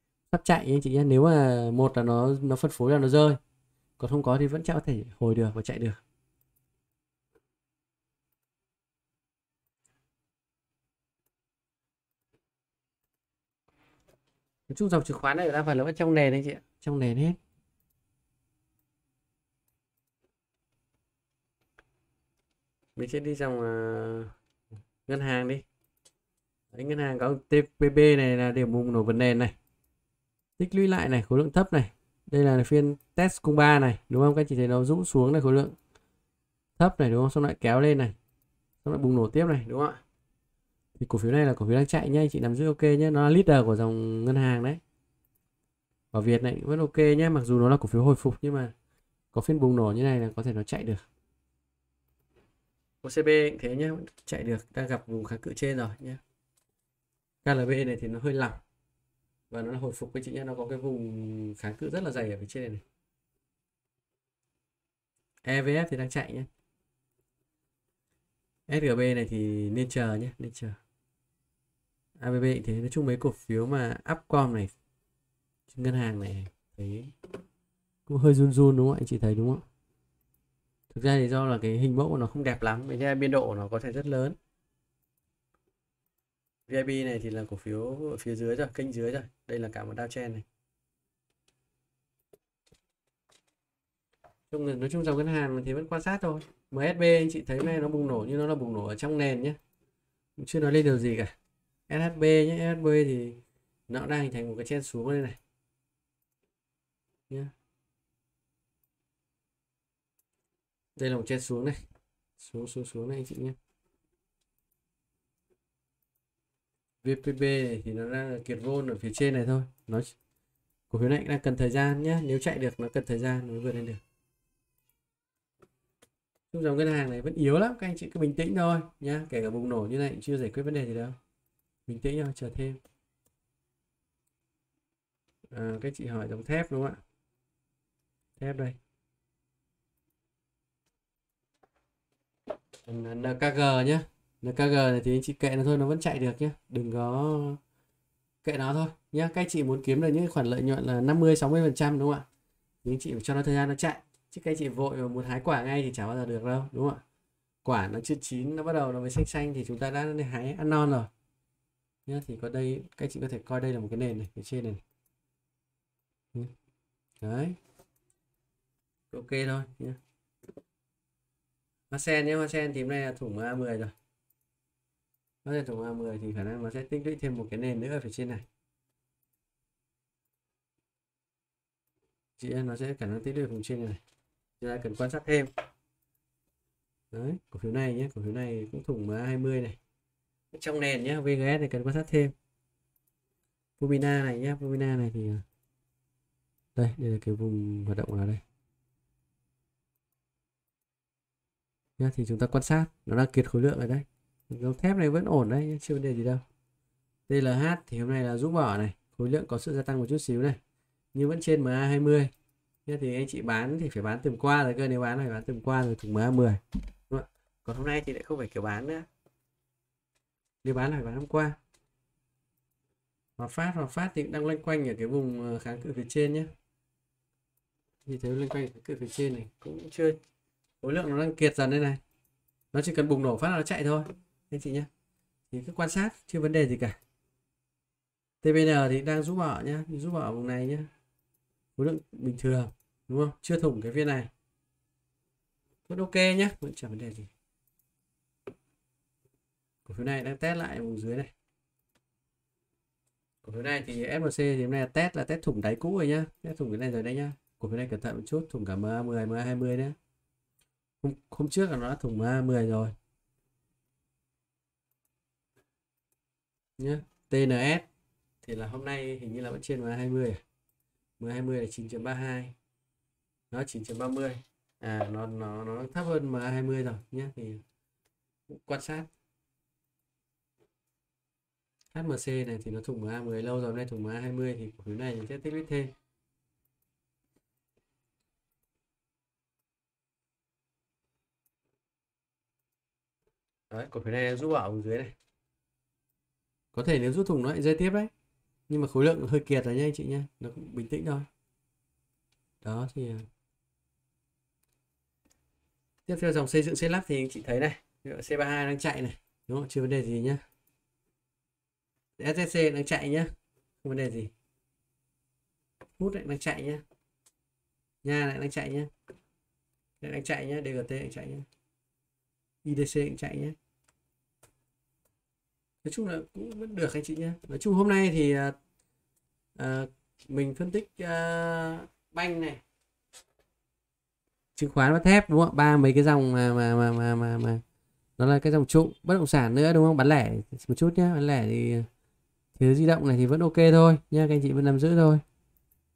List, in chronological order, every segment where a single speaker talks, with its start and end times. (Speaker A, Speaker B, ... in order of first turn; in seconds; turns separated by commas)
Speaker A: 0.3-3.4, Speaker A: 4.0-6.0, Speaker A: 14.7-17.4, Speaker A: 23.0-24.3, Speaker A: 25.1-25.7, Speaker A: 26.7-29.6, Speaker A: 30.6-35.8, Speaker A: 36.8-38.2, Speaker A: 38.8-40.0, Speaker A: 41.0-44.8, Speaker A: 46.1-48.7, Speaker A: 49.3-51.1, Speaker A: 53.0-56.2, Speaker A: 57.4-58.6, Speaker A: 59.5-62.8, Speaker A: 65.4-66.5, Speaker A: 68.7-70.8, Speaker A: 72.2-74.7, Speaker A: 75.7-77.1, Speaker A: 78.1-79.6, Speaker A: 80.9-84.4, Speaker A: 86.7-90.5, Speaker A: 94.5-99.6, Speaker A: 100.4-101.3, Speaker A: 101.9-105.4, Speaker A: 111.0-111.8, Speaker A: 112.4-113.6, Speaker A: 117.0-120.2, Speaker A: 120.9-124.0, Speaker A: 126.5-131.2, Speaker A: 131.9-132.8, Speaker A: 135.5-137.0, Speaker A: 138.4-138.8, Speaker A: 142.9-147.6, Speaker A: 148.4-152.3, Speaker A: 152.8-157.0, Speaker A: 157.6-161.1, Speaker A: 162.1-164.8, Speaker A: 167.2-167.6, Speaker A: 169.1-170.0, Speaker A: 171.9-173.9, Speaker A: 175.4-178.5, Speaker A: 182.4-184.0, Speaker A: 184.6-185.5, Speaker A: 187.1-189.8, Speaker A: 190.5-192.3, Speaker A: 193.8-195.4, Speaker A: 196.8-198.4, Speaker A: 202.0-206.4, Speaker A: 207.3-210.6, Speaker A: 211.1-212.3, Speaker A: 212.9-219.1, Speaker A: 220.6-221.6, Speaker A: 223.4-226.5, Speaker A: 228.1-230.2, Speaker A: 230.8-232.0, Speaker A: 232.7-234.9, Speaker A: 235.5-237.0, Speaker A: 238.4-240.9, Speaker A: 241.8-244.3, Speaker A: 245.9-247.3, Speaker A: 249.8-251.3, Speaker A: 253.4-260.0, Speaker A: 261.0-262.9, Speaker A: 266.8-267.9, Speaker A: 268.4-270.4, Speaker A: 271.2-272.6, Speaker A: 273.5-277.6, Speaker A: 278.5-279.1, Speaker A: 281.9-285.9, Speaker A: 293.7-295.2, Speaker A: 296.7-298.1, Speaker A: 298.7-301.3, Speaker A: 302.6-303.3, Speaker A: 306.1-310.4, Speaker A: 312.2-313.3, Speaker A: 313.8-314.3, Speaker A: 316.0-316.8, Speaker A: 318.0-318.9, Speaker A: 320.0-321.5, Speaker A: 322.6-323.6, Speaker A: 325.8-328.6, Speaker A: 329.6-332.6, Speaker A: 334.6-337.6, Speaker A: 338.2-341.9, Speaker A: 342.6-345.2